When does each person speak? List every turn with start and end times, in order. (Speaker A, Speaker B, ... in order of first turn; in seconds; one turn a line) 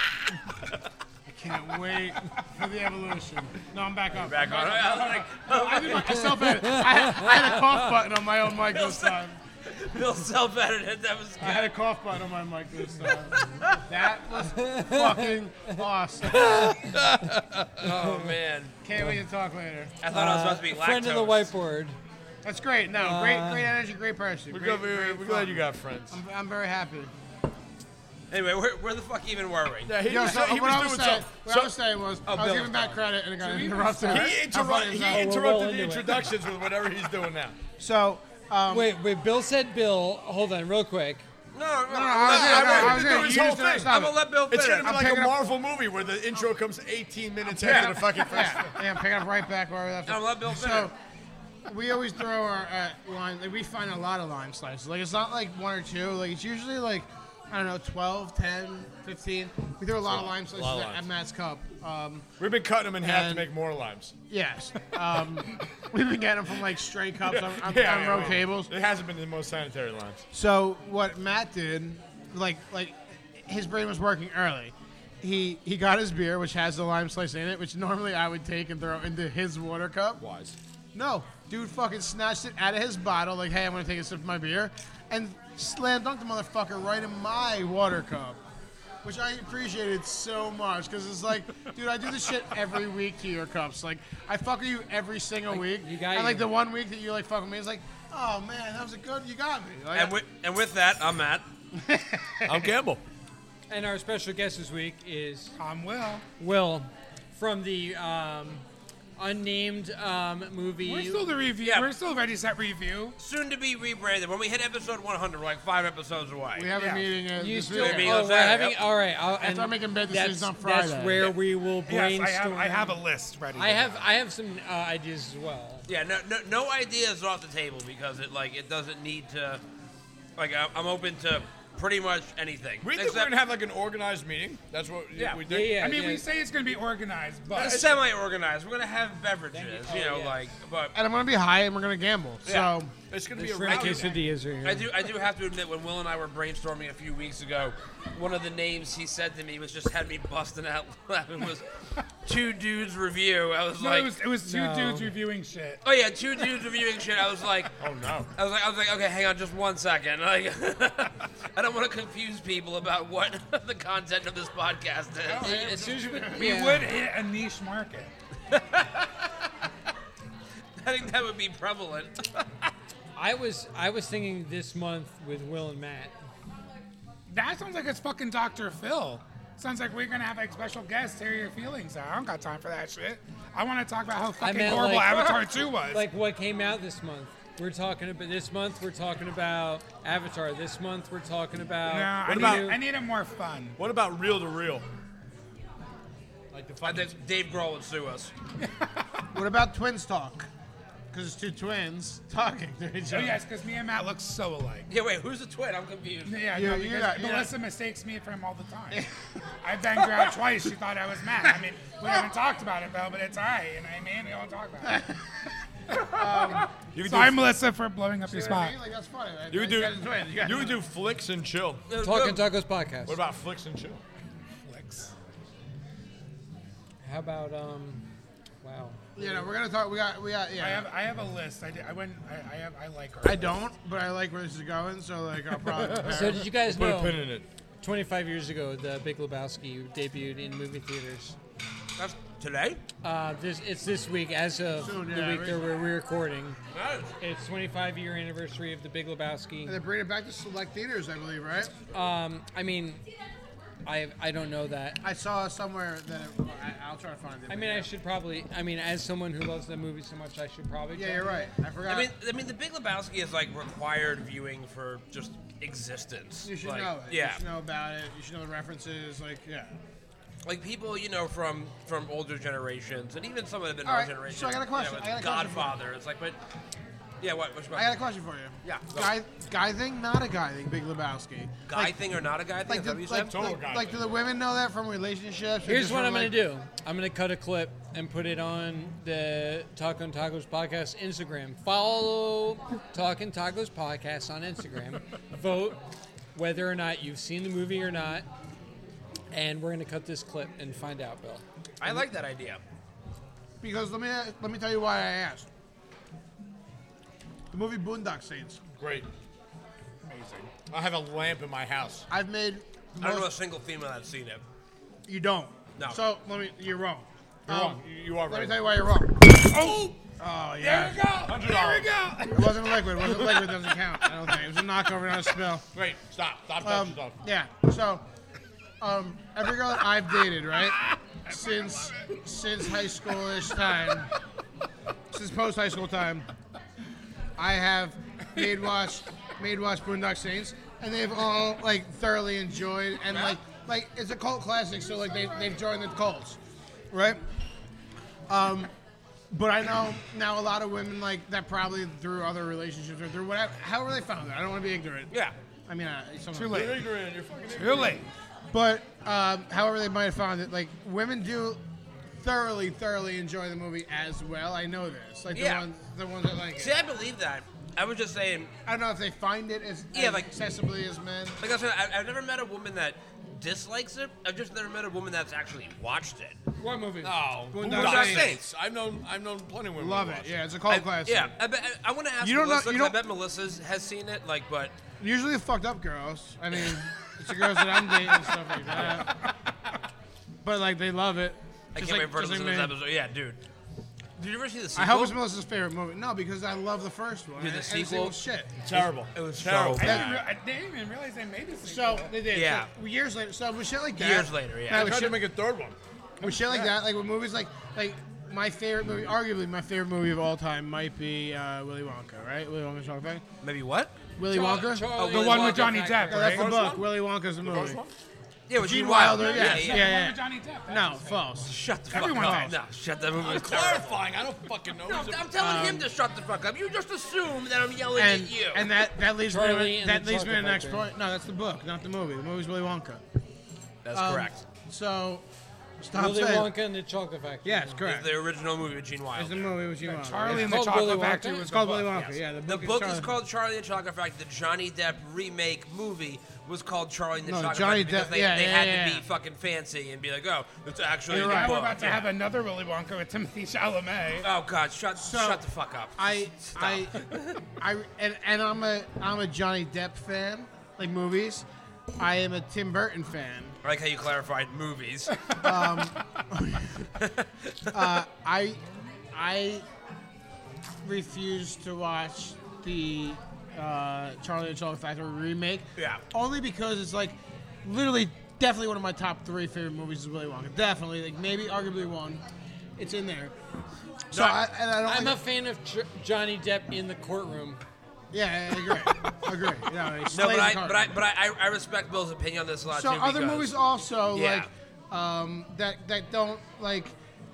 Speaker A: 1.3-9.4
Speaker B: 4.1-6.6
Speaker C: 6.2-7.3
Speaker B: 7.3-7.6
Speaker B: 8.6-11.8
Speaker A: 11.4-16.8
Speaker B: 13.0-13.8
Speaker C: 14.5-15.4
Speaker C: 16.3-16.9
Speaker D: 17.2-17.9
Speaker B: 17.7-18.8
Speaker A: 18.8-19.9
Speaker B: 20.0-21.5
Speaker C: 20.1-22.0
Speaker A: 22.4-27.1
Speaker C: 23.0-23.7
Speaker D: 24.5-26.2
Speaker B: 28.3-29.9
Speaker D: 29.9-31.8
Speaker A: 30.0-35.3
Speaker B: 32.2-33.1
Speaker C: 33.5-34.2
Speaker E: 33.5-34.2
Speaker D: 34.1-37.6
Speaker C: 35.0-36.2
Speaker A: 37.8-38.9
Speaker C: 38.7-41.2
Speaker B: 41.5-45.0
Speaker A: 41.9-45.4
Speaker D: 42.3-48.6
Speaker A: 47.6-50.9
Speaker E: 47.7-48.8
Speaker B: 50.1-50.9
Speaker A: 51.7-62.3
Speaker D: 60.0-61.1
Speaker D: 62.4-64.1
Speaker A: 63.0-63.5
Speaker A: 64.3-68.7
Speaker D: 67.2-70.2
Speaker A: 70.3-80.2
Speaker D: 80.2-80.6
Speaker A: 80.9-88.4
Speaker A: 89.0-100.2
Speaker C: 95.5-96.5
Speaker B: 99.9-101.5
Speaker A: 101.7-102.7
Speaker D: 102.4-103.0
Speaker C: 103.7-105.5
Speaker E: 105.6-106.2
Speaker C: 106.4-108.7
Speaker C: 109.2-111.3
Speaker E: 110.9-113.2
Speaker B: 111.6-111.9
Speaker B: 113.2-116.7
Speaker A: 116.5-118.3
Speaker E: 116.7-117.1
Speaker C: 117.3-123.0
Speaker B: 117.7-118.8
Speaker A: 119.4-121.3
Speaker E: 121.9-124.1
Speaker C: 123.5-125.9
Speaker B: 125.9-129.6
Speaker B: 130.4-133.3
Speaker D: 132.8-135.8
Speaker E: 135.2-137.9
Speaker C: 135.4-136.2
Speaker D: 137.5-138.0
Speaker B: 137.6-140.9
Speaker C: 139.5-140.3
Speaker D: 139.9-140.2
Speaker A: 140.9-142.9
Speaker B: 142.4-142.7
Speaker D: 143.1-144.2
Speaker C: 143.3-144.9
Speaker B: 144.6-151.7
Speaker B: 152.2-154.2
Speaker E: 153.8-155.8
Speaker C: 154.4-155.2
Speaker B: 155.8-157.8
Speaker D: 157.8-158.3
Speaker B: 158.3-165.6
Speaker A: 165.3-166.6
Speaker C: 165.4-166.9
Speaker E: 165.5-168.1
Speaker B: 168.5-169.1
Speaker B: 170.8-172.3
Speaker C: 173.2-176.1
Speaker E: 177.3-186.1
Speaker C: 184.4-192.8
Speaker E: 191.8-193.8
Speaker D: 192.2-192.8
Speaker D: 193.8-194.9
Speaker D: 196.5-197.1
Speaker B: 196.8-198.3
Speaker A: 199.3-200.5
Speaker A: 201.1-203.4
Speaker E: 203.1-204.9
Speaker B: 204.9-206.4
Speaker E: 206.2-209.1
Speaker A: 206.5-207.5
Speaker E: 209.6-215.0
Speaker E: 215.9-216.2
Speaker A: 216.1-216.7
Speaker D: 216.4-217.4
Speaker E: 217.0-218.7
Speaker A: 218.2-220.8
Speaker D: 219.5-221.8
Speaker B: 221.9-222.5
Speaker C: 222.0-223.2
Speaker D: 223.1-224.0
Speaker E: 224.7-225.1
Speaker C: 227.0-228.1
Speaker C: 228.6-229.4
Speaker A: 229.2-230.9
Speaker E: 230.6-233.6
Speaker A: 233.2-236.5
Speaker C: 236.1-237.2
Speaker D: 236.5-237.5
Speaker C: 237.8-241.4
Speaker B: 241.9-242.8
Speaker C: 243.0-246.6
Speaker A: 244.8-245.7
Speaker B: 246.7-247.1
Speaker C: 247.2-249.8
Speaker A: 249.7-251.7
Speaker C: 251.9-253.0
Speaker C: 253.8-255.0
Speaker A: 255.0-257.9
Speaker C: 257.5-261.5
Speaker A: 260.9-262.1
Speaker B: 261.9-267.4
Speaker A: 266.4-269.7
Speaker B: 270.4-276.4
Speaker A: 273.8-275.8
Speaker B: 277.2-278.0
Speaker A: 277.7-281.9
Speaker B: 278.6-279.1
Speaker B: 281.7-283.3
Speaker A: 282.7-286.4
Speaker D: 283.3-284.0
Speaker C: 285.6-295.8
Speaker C: 296.3-298.3
Speaker C: 299.3-301.4
Speaker B: 301.8-302.6
Speaker A: 303.6-305.5
Speaker A: 307.5-308.6
Speaker D: 308.8-309.1
Speaker E: 310.0-310.5
Speaker D: 310.7-312.1
Speaker A: 312.1-313.3
Speaker B: 313.0-314.4
Speaker A: 315.1-319.4
Speaker D: 317.5-318.6
Speaker E: 319.3-320.0
Speaker A: 320.2-321.1
Speaker E: 320.6-323.7
Speaker D: 321.2-321.9
Speaker A: 322.3-325.6
Speaker D: 325.7-327.2
Speaker A: 326.6-328.0
Speaker A: 328.8-334.1
Speaker E: 330.8-332.1
Speaker A: 335.1-336.3
Speaker A: 337.4-346.4
Speaker A: 346.9-347.2
Speaker A: 348.3-348.7
Speaker A: 349.3-355.1
Speaker A: 355.7-356.7
Speaker E: 356.3-356.8
Speaker D: 356.5-358.1
Speaker E: 357.5-358.1
Speaker A: 358.5-361.6
Speaker A: 362.2-366.7
Speaker B: 365.3-365.7
Speaker B: 366.6-368.5
Speaker A: 368.7-371.4
Speaker B: 369.9-370.3
Speaker B: 371.4-376.4
Speaker C: 376.6-377.1
Speaker B: 377.0-378.4
Speaker A: 377.5-378.3
Speaker D: 377.6-380.4
Speaker A: 379.8-381.3
Speaker B: 380.7-384.8
Speaker A: 382.2-382.9
Speaker A: 385.0-389.3
Speaker A: 390.4-392.8
Speaker B: 391.8-393.4
Speaker B: 394.2-395.2
Speaker A: 394.8-398.5
Speaker B: 397.4-398.2
Speaker D: 398.6-400.2
Speaker B: 398.7-400.1
Speaker E: 399.8-402.2
Speaker A: 399.8-400.2
Speaker A: 401.6-405.3
Speaker B: 402.3-402.7
Speaker B: 403.9-405.0
Speaker D: 404.7-405.8
Speaker E: 406.2-406.8
Speaker A: 406.2-413.2
Speaker B: 413.4-413.9
Speaker A: 414.2-415.0
Speaker C: 414.3-416.4
Speaker B: 415.0-415.8
Speaker E: 415.0-416.5
Speaker A: 416.1-417.8
Speaker D: 416.1-417.9
Speaker B: 418.5-420.0
Speaker A: 418.6-422.6
Speaker E: 419.1-422.6
Speaker B: 421.4-424.0
Speaker D: 423.2-425.4
Speaker B: 424.8-428.7
Speaker A: 425.4-425.9
Speaker A: 427.9-433.0
Speaker C: 429.2-430.9
Speaker B: 433.8-434.4
Speaker A: 433.9-435.2
Speaker A: 435.8-436.5
Speaker C: 435.9-437.8
Speaker A: 437.4-438.1
Speaker B: 437.8-439.6
Speaker A: 439.1-443.1
Speaker E: 439.8-442.0
Speaker C: 440.3-441.5
Speaker B: 441.9-452.0
Speaker A: 447.2-449.0
Speaker E: 451.1-454.3
Speaker A: 451.1-451.9
Speaker B: 454.2-457.4
Speaker A: 454.9-455.4
Speaker A: 456.0-461.4
Speaker A: 462.0-463.6
Speaker B: 463.6-465.3
Speaker A: 465.4-466.9
Speaker B: 467.0-467.9
Speaker A: 467.7-468.6
Speaker A: 469.1-469.6
Speaker A: 470.8-482.2
Speaker B: 475.8-476.0
Speaker A: 482.8-483.3
Speaker B: 484.1-484.4
Speaker A: 484.1-485.2
Speaker C: 484.8-487.6
Speaker A: 488.1-490.9
Speaker B: 490.1-493.6
Speaker A: 492.7-496.9
Speaker B: 494.1-494.5